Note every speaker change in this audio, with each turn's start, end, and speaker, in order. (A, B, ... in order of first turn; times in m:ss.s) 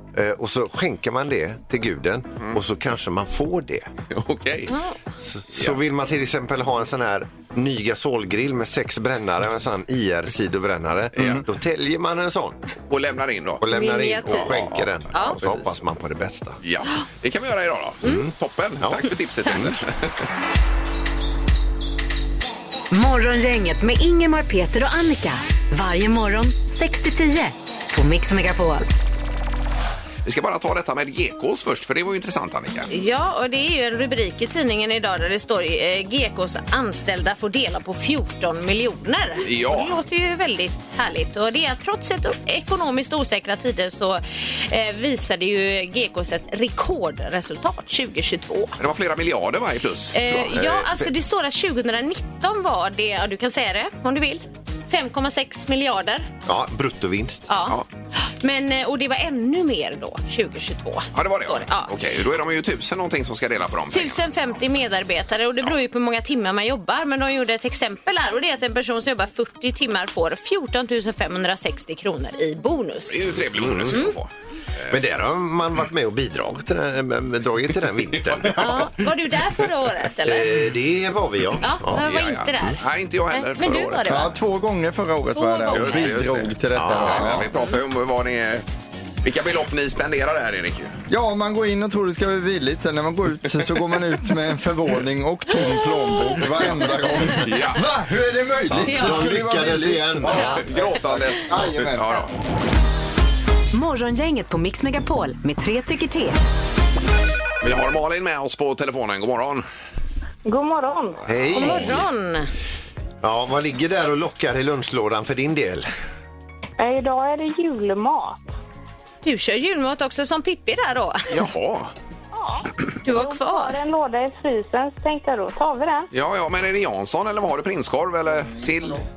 0:00.1-0:03.9 A
0:04.1-0:04.7 B
0:04.7-0:05.0 C
0:05.2-0:12.6 A
0:11.2-0:11.4 B
0:12.9-0:13.6 B
0:13.6-0:16.6 A
0:13.7-0:14.6 C
0:14.2-0:15.7 B
0:16.6-0:20.2 B
0:18.0-0:19.8 A
0:22.9-0:28.9 D
0:30.2-0:32.9 B
0:32.9-0:48.7 C
0:39.4-0:40.0 B
0:48.8-0:50.7 B
0:50.1-0:56.3 C
0:50.5-0:50.9 A
0:56.4-0:57.4 A
0:57.5-1:01.9 C
1:01.1-1:04.3 B
1:03.9-1:13.4 C
1:13.1-1:15.0 B
1:13.5-1:14.0 A
1:13.9-1:14.2 C
1:14.9-1:18.9 A
1:18.1-1:18.9 B
1:18.6-1:20.5 C
1:20.2-1:22.1 A
1:21.6-1:22.8 C
1:21.9-1:24.3 B
1:23.3-1:24.3 C
1:24.0-1:27.5 E
1:25.3-1:26.1 C
1:25.7-1:28.6 B
1:26.7-1:27.5 A
1:29.2-1:31.0 B
1:31.1-1:42.2 E
1:37.3-1:37.8 B
1:38.7-1:40.6 A
1:38.8-1:39.3 C
1:40.3-1:42.3 B
1:40.3-1:40.6 C
1:43.7-1:46.4 D
1:47.6-1:49.6 B
1:50.4-1:51.3 F
1:51.2-1:52.0 A
1:51.5-1:52.5 C
1:53.2-1:55.9 A
1:56.8-1:58.5 F
1:59.2-2:01.3 C
2:01.3-2:01.9 B
2:02.3-2:06.1 F
2:03.0-2:03.8 C
2:06.1-2:09.0 B